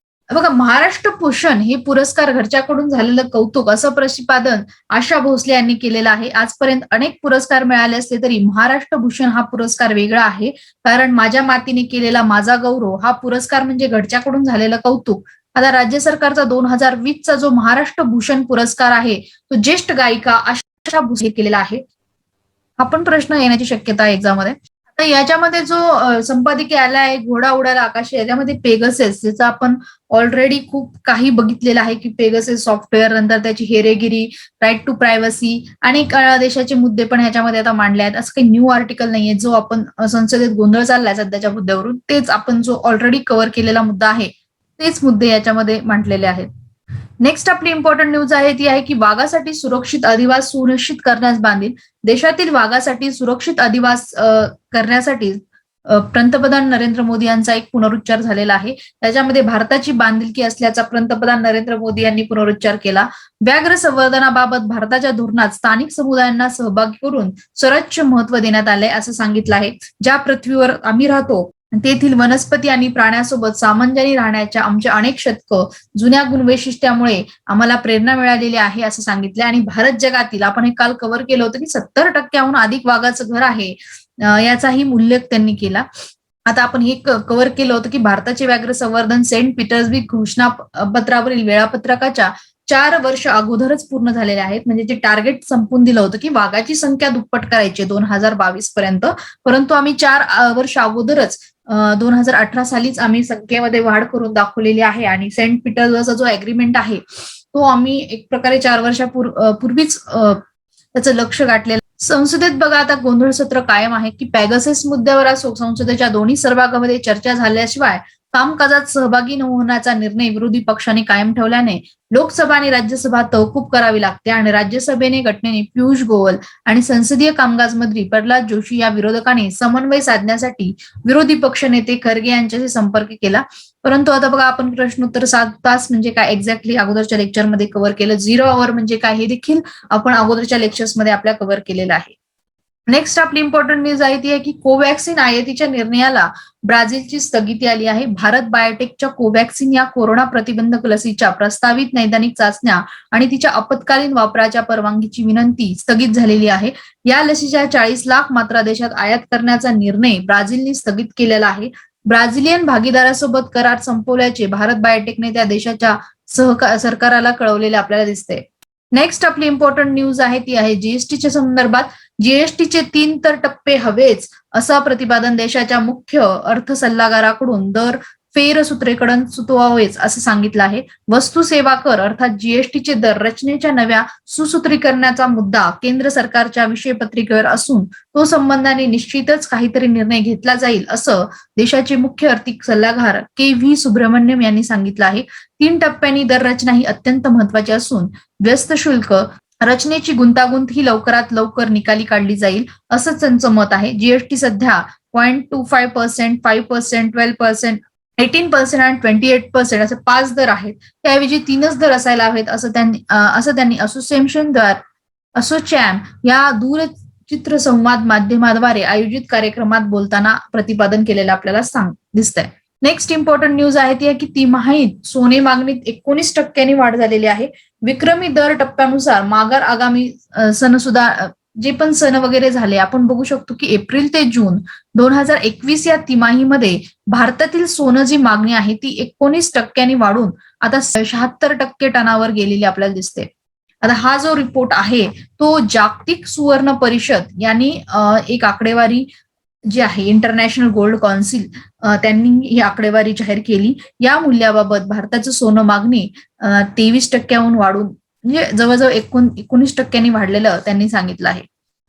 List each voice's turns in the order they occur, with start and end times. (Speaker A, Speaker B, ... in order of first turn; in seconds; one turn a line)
Speaker A: 0.3-21.8
Speaker A: 22.8-46.5
Speaker A: 47.2-85.8
Speaker A: 86.5-110.4
Speaker A: 110.9-142.1
Speaker A: 142.9-214.8
Speaker A: 215.3-243.3
Speaker A: 243.8-249.1
Speaker A: 249.7-261.4